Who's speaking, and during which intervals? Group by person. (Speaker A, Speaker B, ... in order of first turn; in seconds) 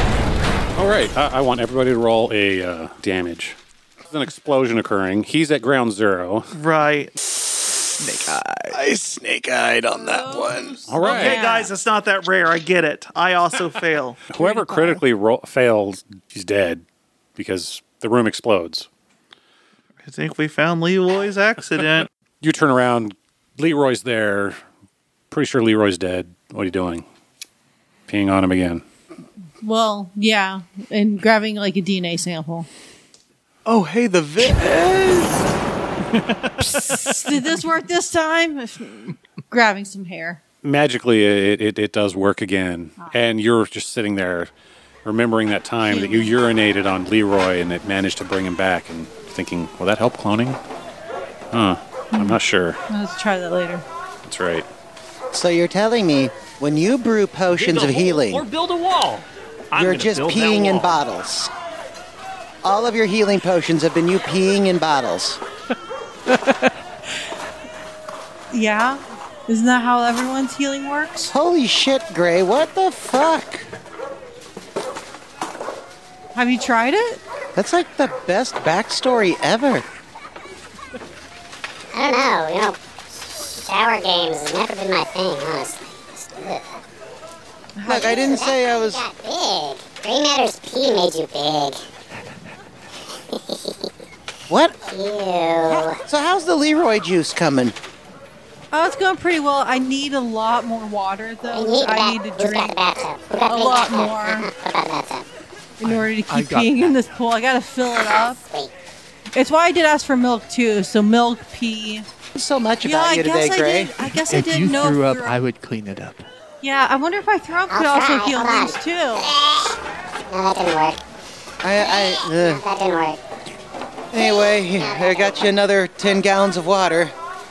Speaker A: 0.8-6.5, 10.9-11.4, 14.3-16.8, 17.4-18.9, 22.4-24.6, 25.3-27.1, 28.1-28.8, 40.6-44.5, 45.0-50.6, 51.5-52.8, 54.2-54.7
Speaker B: 6.5-7.1, 11.1-14.3, 20.0-22.1
Speaker C: 8.0-8.8, 105.8-107.2, 114.3-116.3
Speaker D: 8.7-11.1, 33.7-35.4
Speaker E: 10.0-11.7, 14.4-14.9, 29.6-32.7, 36.6-40.4, 45.9-46.4, 52.9-53.8, 68.5-71.3, 76.3-77.2, 87.8-88.3, 98.7-102.8, 103.5-104.5, 105.8-108.4, 109.3-112.1, 112.8-115.4, 116.6-119.3
Speaker F: 55.3-58.4, 59.8-61.5, 62.6-65.4, 71.3-73.7, 77.5-79.8, 87.8-89.0, 94.5-94.9, 96.0-97.8, 112.3-113.9, 121.6-122.6, 124.1-127.1
Speaker G: 57.5-61.0
Speaker H: 81.9-86.8, 87.9-91.8, 93.3-93.9, 94.9-96.0, 101.5-105.3, 108.0-108.7, 117.7-119.8, 120.3-121.0, 121.7-123.2, 124.1-125.5